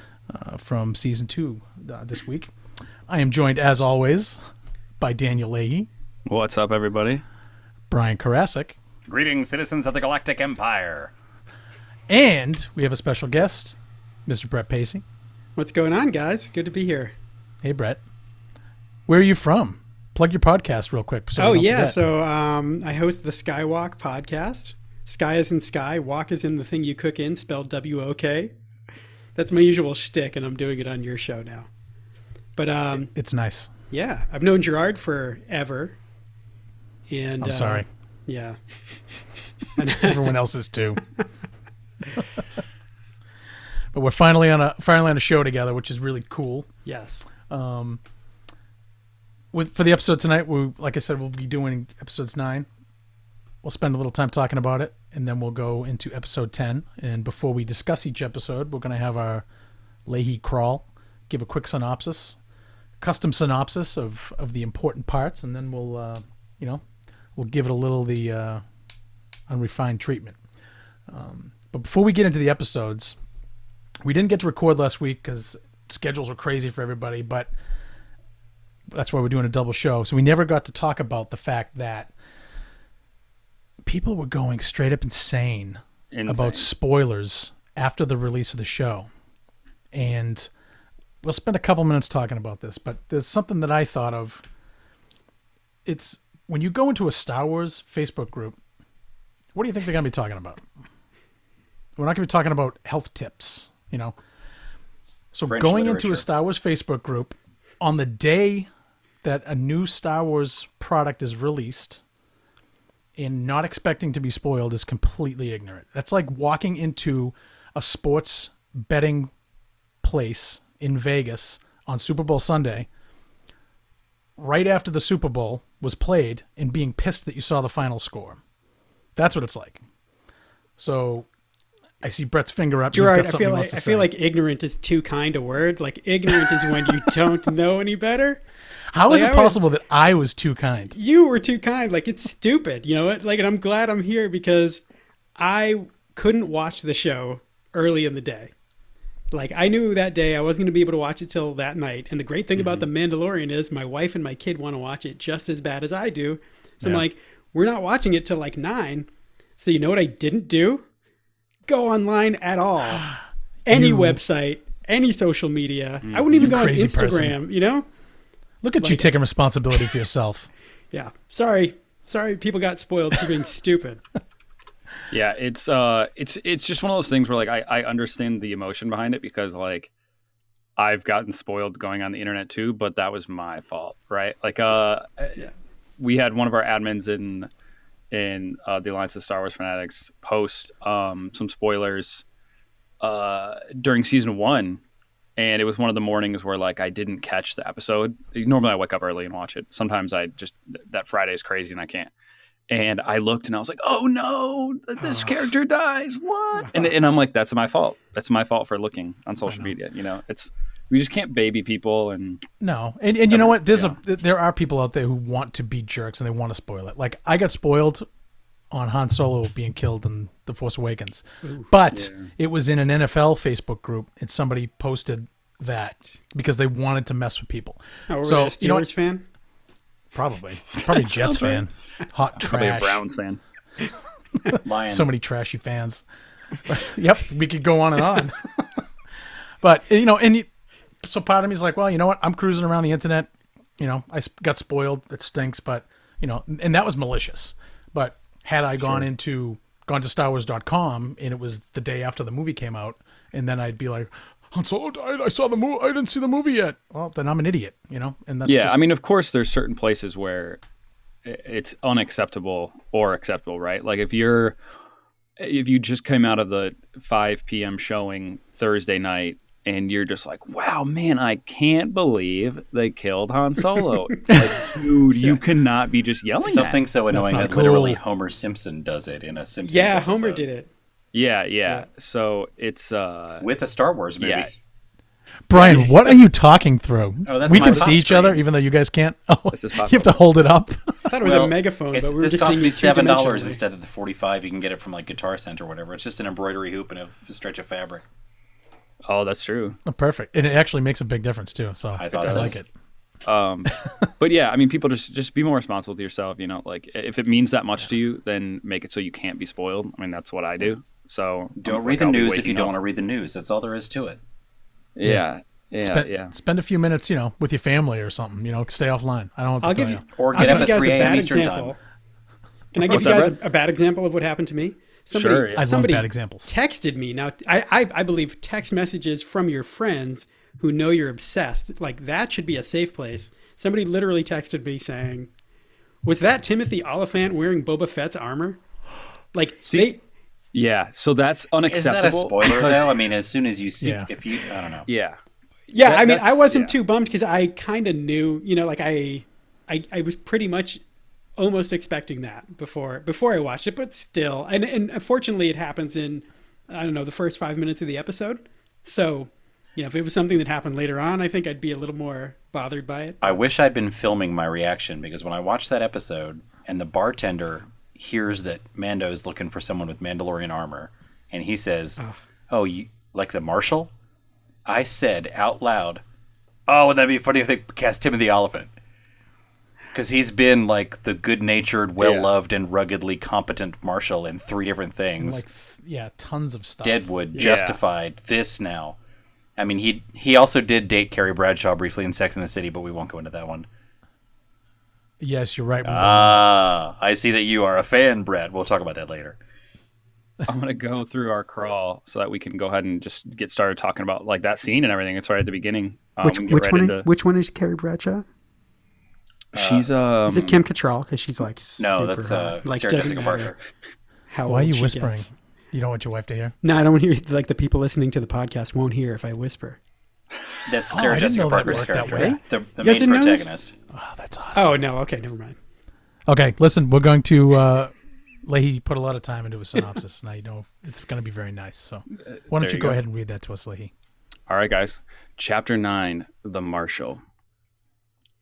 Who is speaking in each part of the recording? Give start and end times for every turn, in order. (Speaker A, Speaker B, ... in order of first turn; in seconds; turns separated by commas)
Speaker A: 0.3-2.5, Speaker A: 3.1-4.4, Speaker A: 5.0-5.9, Speaker B: 6.2-7.2, Speaker A: 7.9-8.8, Speaker C: 9.1-11.1, Speaker A: 12.1-15.0, Speaker D: 15.6-17.1, Speaker A: 17.6-18.0, Speaker A: 19.1-21.9, Speaker D: 21.4-28.6, Speaker D: 29.4-31.7, Speaker D: 32.5-33.1, Speaker A: 33.1-33.7, Speaker D: 33.9-36.0, Speaker D: 37.1-38.6, Speaker A: 37.4-37.9, Speaker D: 39.7-40.4, Speaker A: 40.0-41.0, Speaker A: 43.9-46.7, Speaker D: 46.8-47.3, Speaker A: 47.5-48.0, Speaker A: 49.5-52.7, Speaker A: 53.6-59.4, Speaker A: 60.0-62.4, Speaker A: 63.0-66.8, Speaker A: 67.3-68.6, Speaker A: 69.5-70.4, Speaker A: 71.1-73.2, Speaker A: 74.0-77.5, Speaker A: 78.9-82.1, Speaker A: 83.8-89.1, Speaker B: 86.1-86.6, Speaker A: 89.9-90.5, Speaker A: 91.2-94.4, Speaker A: 95.8-98.6, Speaker A: 99.5-100.6, Speaker A: 102.0-104.2, Speaker A: 105.3-108.7, Speaker C: 105.4-106.3, Speaker A: 109.2-112.0, Speaker A: 113.2-119.3, Speaker A: 120.0-122.9, Speaker A: 124.4-128.4, Speaker A: 129.1-129.8, Speaker A: 130.8-131.3, Speaker A: 132.0-134.1, Speaker D: 132.9-138.4, Speaker A: 138.9-141.0, Speaker D: 139.1-139.6, Speaker D: 140.9-144.8, Speaker D: 145.4-148.5, Speaker D: 149.3-160.8, Speaker B: 152.6-152.8, Speaker D: 161.7-163.1, Speaker D: 163.7-167.8, Speaker A: 163.7-164.2, Speaker B: 166.0-166.5, Speaker A: 166.3-167.4, Speaker A: 168.6-170.5, Speaker D: 168.8-169.1, Speaker D: 170.9-174.0, Speaker B: 175.1-179.9, Speaker B: 180.8-185.5, Speaker B: 186.0-187.5, Speaker B: 188.1-192.2, Speaker B: 193.0-194.8, Speaker B: 195.4-202.1, Speaker B: 202.7-212.4, Speaker D: 205.0-205.5, Speaker D: 206.6-206.8, Speaker A: 209.4-209.7, Speaker A: 212.6-218.1, Speaker B: 213.3-214.0, Speaker A: 218.7-228.9, Speaker B: 221.9-222.3, Speaker D: 228.1-229.2, Speaker A: 230.1-233.0, Speaker B: 230.8-231.6, Speaker B: 232.4-233.4, Speaker A: 234.4-236.0, Speaker C: 234.6-235.1, Speaker A: 236.7-238.8, Speaker A: 239.6-240.5, Speaker A: 241.0-258.8, Speaker B: 258.4-260.6, Speaker B: 261.2-264.6, Speaker B: 265.4-276.9, Speaker C: 276.4-280.4, Speaker A: 277.1-278.0, Speaker D: 279.7-280.7, Speaker B: 281.1-283.5, Speaker C: 283.4-284.5, Speaker B: 284.2-284.5, Speaker A: 285.5-291.1, Speaker C: 287.2-288.4, Speaker B: 289.5-290.2, Speaker D: 291.1-293.6, Speaker C: 291.2-298.0, Speaker B: 299.1-299.8, Speaker A: 299.9-302.7, Speaker C: 301.9-302.6, Speaker B: 302.1-302.5, Speaker B: 303.2-312.7, Speaker C: 311.6-314.2, Speaker B: 314.9-316.3, Speaker A: 315.8-320.8, Speaker D: 319.6-321.8, Speaker C: 320.1-321.8, Speaker D: 322.7-335.3, Speaker B: 322.8-323.3, Speaker B: 325.1-325.6, Speaker A: 325.5-326.5, Speaker D: 336.0-338.6, Speaker D: 339.3-340.0, Speaker B: 340.5-342.9, Speaker C: 341.6-344.9, Speaker A: 343.8-344.1, Speaker B: 344.9-345.2, Speaker D: 345.7-350.8, Speaker B: 345.8-346.7, Speaker D: 351.4-363.4, Speaker C: 363.2-373.9, Speaker C: 374.6-376.0, Speaker C: 376.7-378.7, Speaker C: 379.9-385.4, Speaker B: 382.0-382.3, Speaker A: 385.2-387.1, Speaker C: 386.8-389.0, Speaker B: 387.4-387.8, Speaker C: 389.6-393.7, Speaker A: 395.2-396.4, Speaker C: 395.8-399.4, Speaker B: 400.5-407.1, Speaker D: 406.2-408.2, Speaker B: 409.5-410.6, Speaker C: 409.5-409.9, Speaker D: 410.2-413.5, Speaker C: 411.8-413.6, Speaker D: 414.3-415.3, Speaker A: 414.4-416.5, Speaker D: 416.6-419.8, Speaker C: 420.6-423.7, Speaker A: 420.9-422.4, Speaker D: 421.9-423.5, Speaker A: 423.9-424.8, Speaker D: 424.5-425.6, Speaker A: 426.3-433.9, Speaker B: 432.4-433.0, Speaker B: 434.5-437.2